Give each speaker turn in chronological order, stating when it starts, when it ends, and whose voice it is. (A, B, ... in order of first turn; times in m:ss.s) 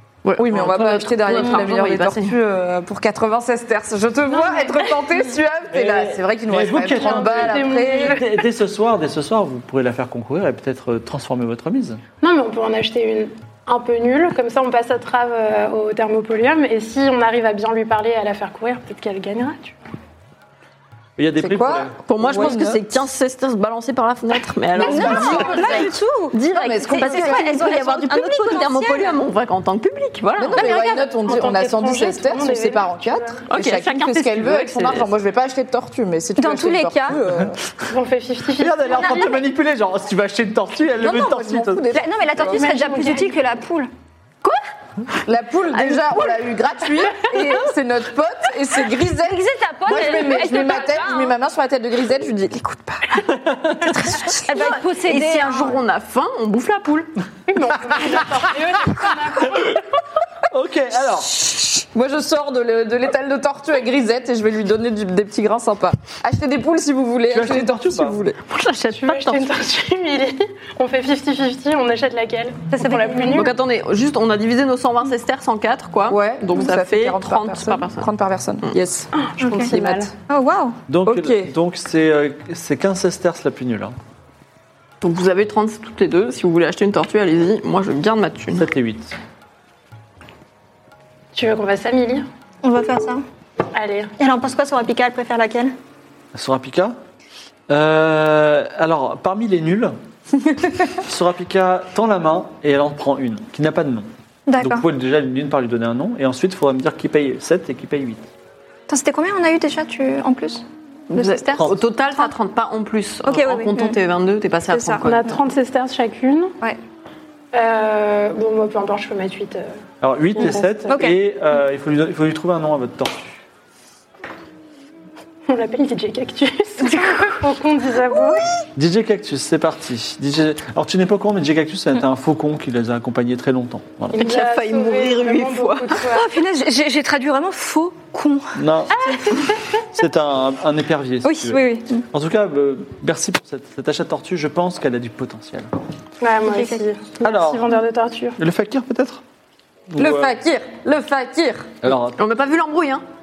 0:00.2-0:02.4 A
0:00.4-0:08.2 B
0:05.7-0:12.0 C
0:06.9-0:08.4 D
0:12.2-0:19.8 D
0:21.2-0:22.6 C
0:21.4-0:22.9 B
0:22.1-0:30.7 A
0:24.7-0:27.8 B
0:24.8-0:29.2 E
0:30.4-0:37.6 B
0:30.6-0:31.2 E
0:31.2-0:33.4 D
0:33.5-0:35.1 A
0:36.4-0:37.2 E
0:37.9-0:39.4 D
0:38.6-0:41.8 C
0:41.0-0:42.6 B
0:41.9-0:43.9 E
0:42.4-0:43.4 D
0:45.2-0:53.3 B
0:49.2-0:51.3 E
0:53.2-0:54.0 C
0:54.0-0:54.3 B
0:54.2-0:55.8 E
0:54.5-0:57.1 A
0:57.5-0:59.8 D
1:00.5-1:01.4 C
1:01.3-1:08.4 B
1:07.3-1:08.2 C
1:08.5-1:09.4 A
1:09.0-1:13.5 D
1:12.7-1:13.5 E
1:13.3-1:18.1 A
1:16.1-1:20.1 B
1:19.1-1:20.1 D
1:19.4-1:19.7 E
1:20.3-1:20.8 E
1:20.9-1:23.9 C
1:21.0-1:21.5 B
1:25.0-1:28.6 A
1:28.6-1:29.2 C
1:31.4-1:32.3 D
1:32.6-1:33.2 E
1:33.7-1:34.1 D
1:34.2-1:35.7 E
1:36.3-1:37.0 C
1:37.7-1:40.0 C
1:40.8-1:44.1 C
1:44.5-1:44.8 E
1:44.6-1:48.3 C
1:48.9-1:52.3 E
1:51.1-1:55.4 A
1:53.3-1:54.0 E
1:54.7-1:55.1 E
1:55.0-1:56.6 D
1:57.5-1:59.7 D
2:00.0-2:03.4 C
2:00.4-2:00.9 D
2:00.4-2:01.2 E
2:05.5-2:08.4 D
2:06.8-2:07.4 E
2:08.8-2:14.2 C
2:14.1-2:16.3 D
2:14.2-2:16.0 A
2:16.1-2:19.5 E
2:18.6-2:19.0 C
2:18.9-2:19.6 D
2:19.9-2:25.7 C
2:21.2-2:22.0 E
2:26.2-2:28.4 D
2:26.5-2:26.8 E
2:27.2-2:27.7 C
2:28.4-2:29.2 C
2:29.9-2:30.3 C
2:30.0-2:31.7 B
2:31.8-2:32.2 C
2:32.1-2:33.0 A